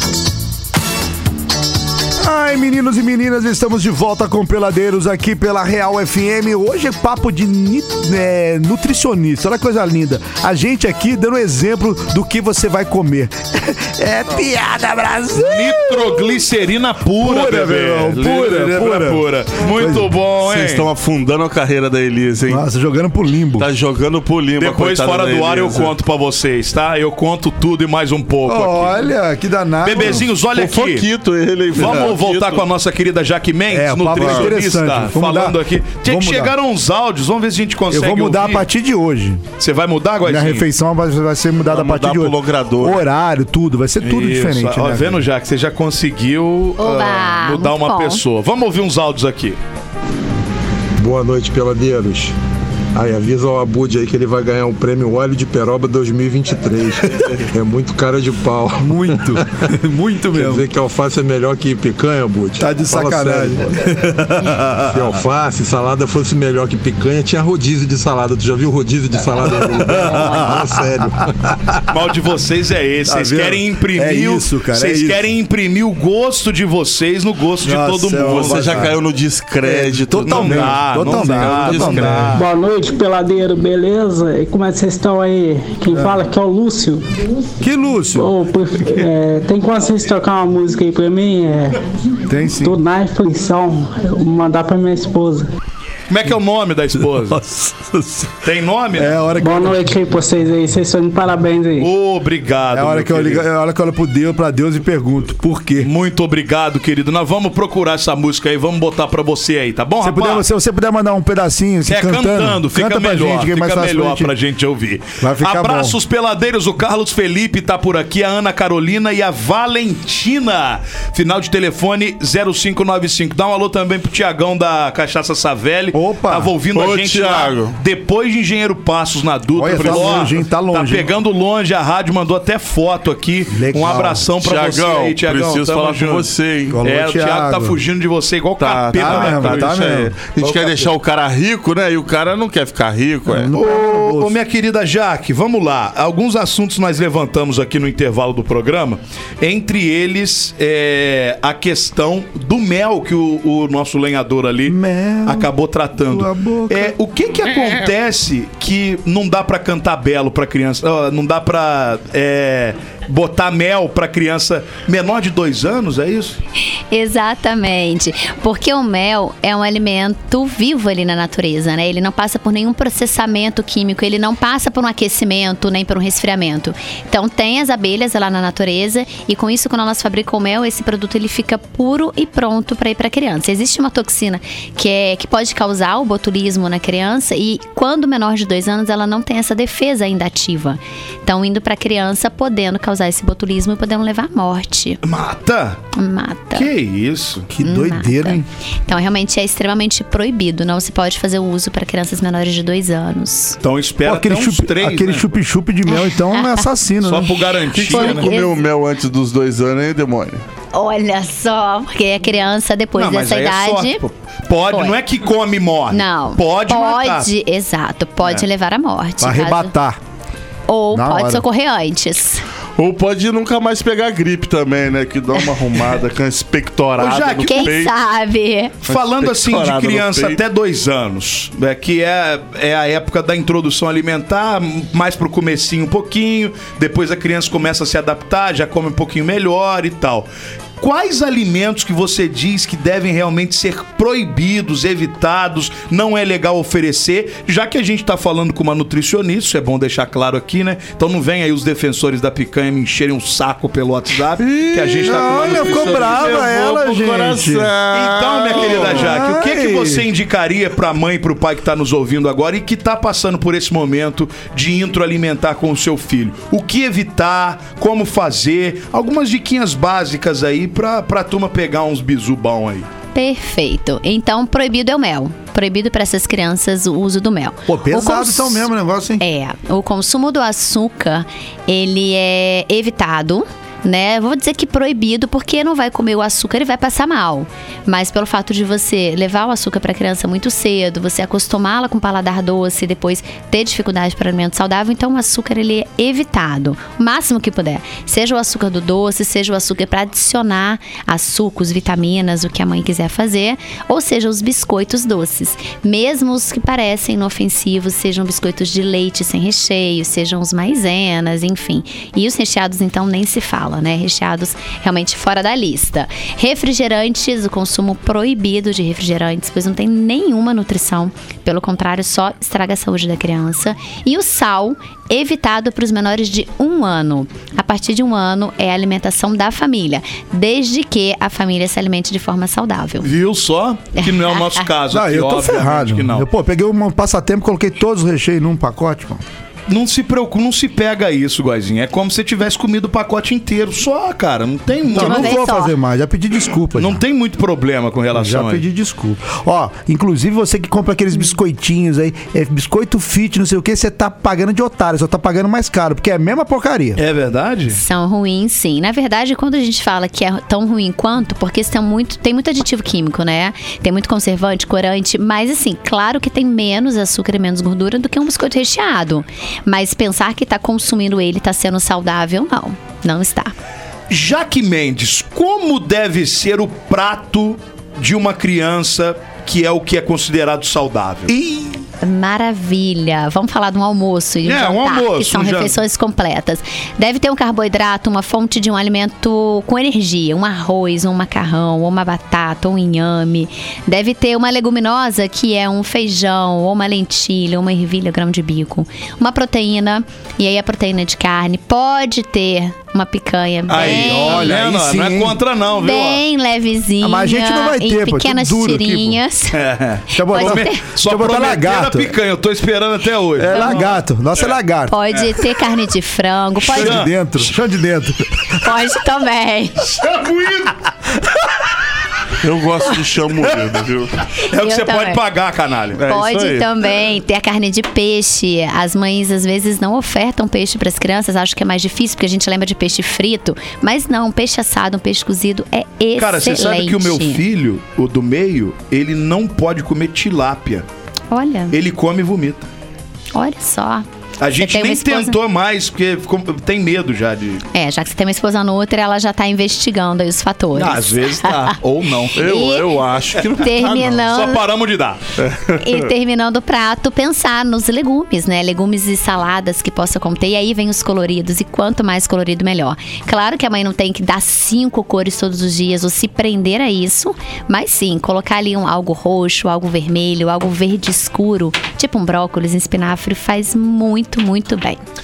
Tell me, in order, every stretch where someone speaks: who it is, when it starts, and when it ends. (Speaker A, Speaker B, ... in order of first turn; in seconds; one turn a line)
Speaker A: 2.2-16.4
Speaker B: 15.3-20.9
Speaker A: 17.1-20.1
Speaker C: 20.4-22.6
Speaker A: 22.5-23.7
Speaker C: 23.6-25.9
Speaker B: 24.6-29.1
Speaker A: 28.5-30.3
Speaker B: 29.8-31.1
Speaker C: 30.0-32.7
Speaker B: 31.7-38.7
Speaker A: 33.7-36.5
Speaker C: 34.2-34.5
Speaker A: 37.9-39.4
Speaker B: 39.6-40.7
Speaker A: 40.2-45.2
Speaker C: 41.6-43.0
Speaker B: 44.0-49.6
Speaker D: 46.8-48.2
Speaker E: 51.0-52.4
Speaker E: 52.9-59.4
Speaker A: 58.8-60.7
Speaker E: 60.3-63.8
Speaker A: 62.6-65.1
Speaker E: 64.7-71.5
Speaker A: 69.5-70.9
Speaker B: 71.9-78.9
Speaker A: 73.0-75.2
Speaker A: 77.6-79.0
Speaker C: 78.2-82.3
Speaker A: 79.6-82.4
Speaker B: 80.3-82.5
Speaker F: 82.3-87.0
Speaker A: 85.9-86.2
Speaker A: 87.6-88.3
Speaker F: 88.2-91.8
Speaker A: 92.3-92.8
Speaker F: 92.5-95.5
Speaker B: 96.1-97.4
Speaker A: 97.0-100.0
Speaker B: 98.4-99.2
Speaker F: 99.4-101.9
Speaker B: 101.8-103.5
Speaker A: 102.7-105.9
Speaker B: 105.8-110.4
Speaker A: 110.0-114.3
Speaker B: 111.9-136.3
Speaker A: 115.2-116.0
Speaker A: 125.9-126.5
Speaker C: 126.7-127.8
Speaker A: 129.5-131.1
Speaker C: 129.7-130.3
Speaker A: 133.5-134.3
Speaker C: 134.4-136.8
Speaker A: 136.7-137.8
Speaker B: 136.8-139.8
Speaker C: 138.6-143.5
Speaker A: 138.9-140.8
Speaker A: 143.3-144.3
Speaker B: 143.5-166.4
Speaker A: 154.7-155.5
Speaker A: 156.1-156.9
Speaker D: 166.9-195.0
Speaker B: 195.0-195.8
Speaker D: 195.9-196.7
Speaker B: 196.5-197.5
Speaker A: 197.5-198.4
Speaker D: 197.6-203.6
Speaker B: 203.6-205.3
Speaker A: 204.1-207.4
Speaker D: 205.9-206.6
Speaker B: 207.0-208.3
Speaker C: 207.7-210.4
Speaker D: 207.9-208.6
Speaker D: 210.7-214.0
Speaker B: 213.0-217.3
Speaker D: 214.7-215.0
Speaker D: 215.9-219.7
Speaker A: 219.2-220.0
Speaker D: 220.7-222.4
Speaker A: 220.9-221.4
Speaker C: 222.8-227.9
Speaker B: 227.0-227.8
Speaker D: 227.4-228.8
Speaker B: 228.9-240.3
Speaker C: 228.9-230.4
Speaker B: 240.8-256.5
Speaker C: 254.4-259.2
Speaker A: 255.0-257.7
Speaker B: 257.9-272.9
Speaker A: 258.5-260.1
Speaker D: 273.1-333.1
Speaker A: 277.7-279.2
Speaker B: 333.0-336.3
Speaker D: 334.0-334.7
Speaker A: 334.9-339.2
Speaker B: 339.7-345.4
Speaker A: 344.9-347.0
Speaker D: 345.0-345.7
Speaker B: 346.8-348.6
Speaker A: 348.1-357.0
Speaker B: 357.0-357.8
Speaker D: 357.7-373.5
Speaker B: 374.1-381.8
Speaker D: 382.0-404.5
Speaker B: 384.4-385.8
Speaker B: 403.7-406.2
Speaker A: 403.7-405.4
Speaker D: 405.7-409.6
Speaker A: 407.0-409.2
Speaker B: 409.5-413.9
Speaker D: 410.1-410.8
Speaker A: 410.2-412.1
Speaker A: 413.4-415.0
Speaker D: 413.5-413.9
Speaker D: 414.9-417.1
Speaker A: 416.7-418.7
Speaker B: 416.7-417.5
Speaker D: 418.6-420.0
Speaker B: 419.9-420.8
Speaker C: 422.4-424.1
Speaker B: 423.4-423.8
Speaker B: 424.4-426.0
Speaker D: 424.5-425.2
Speaker C: 426.0-426.7
Speaker D: 426.1-437.4
Speaker B: 436.2-440.9
Speaker D: 441.3-441.8
Speaker B: 441.7-442.7
Speaker D: 443.3-444.1
Speaker B: 444.4-447.6
Speaker D: 444.6-445.4
Speaker D: 447.7-451.8
Speaker B: 450.8-452.4
Speaker D: 452.3-454.6
Speaker C: 452.4-454.2
Speaker B: 453.9-455.2
Speaker C: 455.4-456.1
Speaker D: 455.8-475.0